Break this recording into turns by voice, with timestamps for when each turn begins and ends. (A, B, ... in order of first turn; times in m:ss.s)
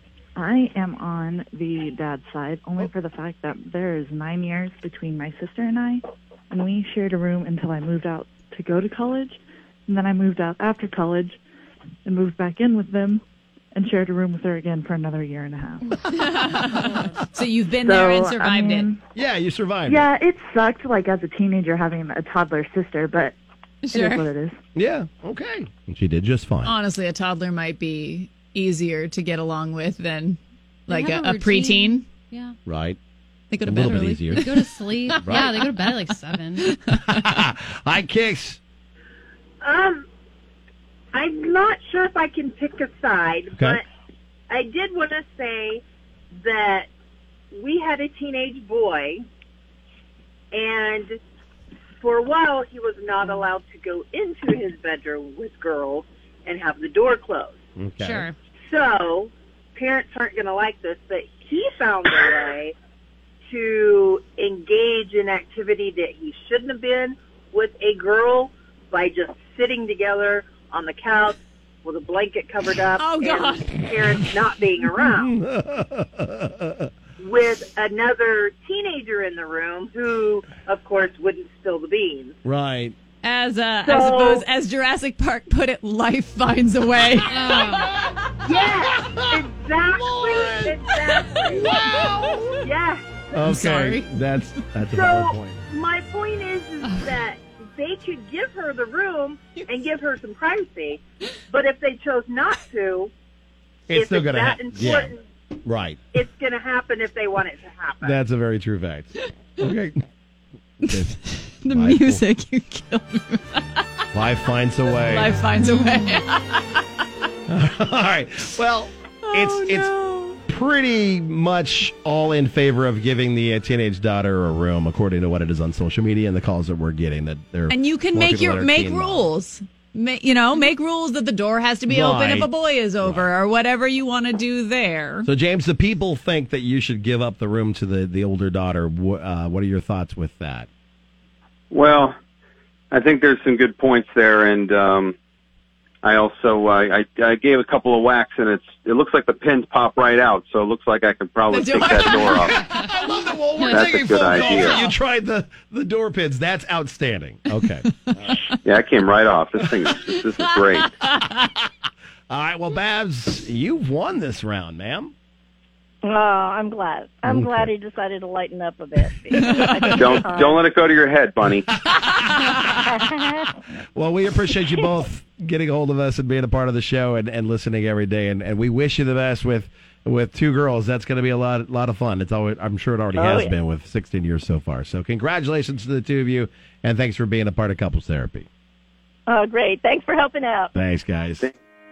0:00.4-0:11.4 A
0:12.0-0:13.2 A
0:13.7-0:16.0 A
0:16.0-0:18.9 B
0:17.8-0:19.0 A
0:19.1-0:20.1 C
0:19.9-0:23.3 A
0:23.8-0:24.3 B
0:23.9-0:24.6 A
0:24.7-0:26.7 C
0:26.6-0:32.0 B
0:30.9-0:32.6 D
0:32.6-0:33.0 C
0:33.5-0:37.3 B
0:33.6-0:34.6 C
0:33.8-0:36.8 D
0:35.2-0:35.7 C
0:37.1-0:38.6 C
0:39.6-0:40.0 E
0:41.1-0:43.8 E
0:43.5-0:43.8 C
0:44.5-0:45.8 E
0:46.4-0:46.9 E
0:47.5-0:49.2 E
0:50.5-0:51.2 E
0:52.0-0:57.6 E
0:57.8-0:58.3 C
0:58.0-0:58.3 B
0:58.6-1:02.7 E
1:03.5-1:15.3 E
1:13.0-1:13.8 B
1:15.1-1:16.9 C
1:17.2-1:22.3 E
1:22.4-1:23.0 C
1:23.2-1:27.9 B
1:23.8-1:24.4 E
1:27.3-1:27.9 C
1:27.3-1:27.7 D
1:28.5-1:29.4 C
1:28.5-1:32.1 E
1:30.0-1:30.7 C
1:31.5-1:32.5 C
1:32.6-1:33.0 E
1:33.3-1:35.6 C
1:33.4-1:34.1 B
1:34.8-1:43.1 E
1:43.9-1:45.1 C
1:43.9-1:45.2 E
1:45.6-1:46.0 C
1:46.1-1:48.2 E
1:48.0-1:50.0 C
1:50.8-1:53.9 B
1:50.9-1:52.2 C
1:54.1-1:55.3 C
1:54.9-1:56.8 B
1:57.5-1:59.9 C
1:59.2-2:00.4 B
2:00.5-2:09.3 C
2:07.7-2:15.3 B
2:11.9-2:13.3 C
2:15.2-2:20.7 C
2:21.7-2:22.2 F
2:22.9-2:25.1 F
2:26.0-2:32.6 F
2:31.5-2:32.6 B
2:31.8-2:38.5 C
2:33.6-2:34.9 F
2:34.4-2:34.8 B
2:38.6-2:40.9 F
2:42.3-2:45.1 C
2:46.0-2:50.6 G
2:47.2-2:47.7 C
2:49.3-2:50.2 C
2:49.9-2:51.7 F
2:51.7-2:53.2 C
2:53.9-3:08.5 C
3:03.1-3:03.5 G
3:09.3-3:10.7 G
3:10.7-3:11.5 C